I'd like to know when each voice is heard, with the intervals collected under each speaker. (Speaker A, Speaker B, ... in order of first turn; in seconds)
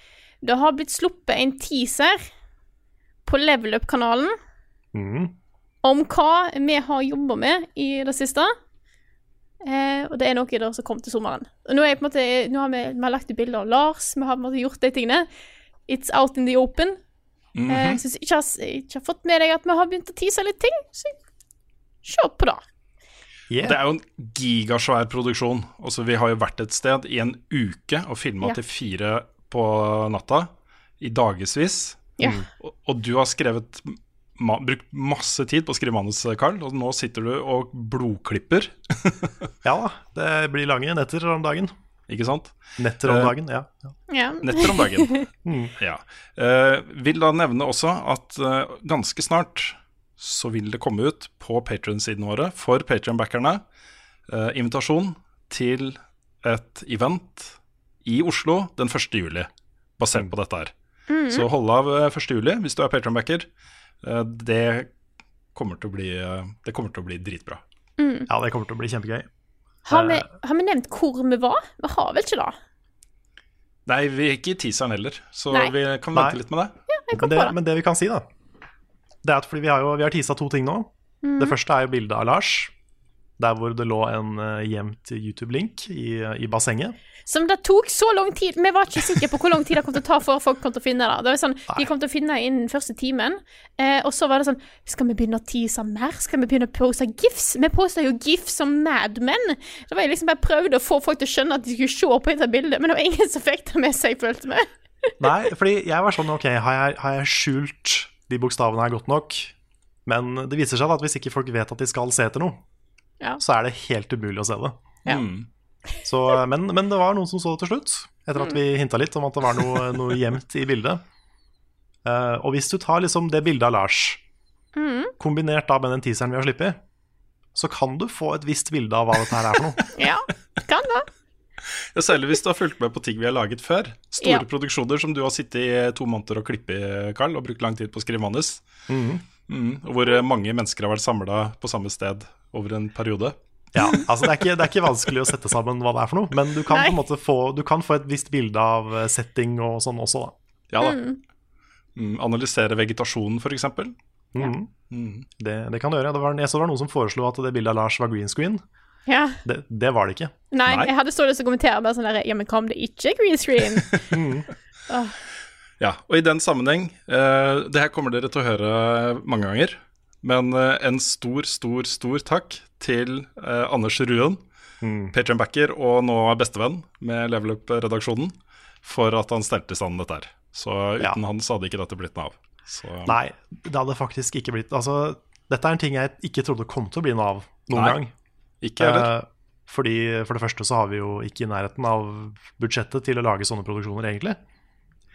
Speaker A: 0.4-2.2, 3.2-4.3, 5.8-8.5, 9.6-15.3, 15.9-17.0, 17.7-21.1, 22.0-22.6, 32.2-32.4, 44.1-45.2, 61.1-61.5, 68.0-68.3, 69.8-72.5, 76.9-77.5, 81.2-81.5, 87.2-105.1, 124.8-125.1, 129.9-131.1, 146.7-147.0, 150.8-151.2, 159.1-159.4, 160.5-164.1, 164.9-165.2
Speaker B: 4.9-5.3, 23.5-23.8, 39.6-41.7, 42.8-43.9, 45.4-45.7, 68.3-69.3, 69.9-70.3, 76.1-76.4, 77.1-78.2, 79.2-82.7, 83.4-87.0, 105.2-109.5, 110.0-112.6, 113.4-114.8, 116.0-121.0, 122.0-124.2, 125.2-126.8, 127.5-129.8, 138.9-139.2, 143.7-150.3, 154.3-154.7, 155.4-158.6, 159.4-160.3, 164.1-164.5, 174.8-175.1, 183.1-188.1, 188.8-194.4
Speaker C: 17.5-18.0, 23.6-39.3, 42.1-43.3, 44.4-53.6, 54.3-59.5, 60.0-60.7, 61.3-63.5, 64.0-64.9, 65.5-67.6, 73.8-76.7, 115.1-115.5, 131.7-138.6, 139.5-143.3, 150.7-151.0, 151.9-153.9, 154.9-155.2, 160.7-160.9, 165.8-174.4, 175.1-183.2, 187.7-188.0, 188.6-189.1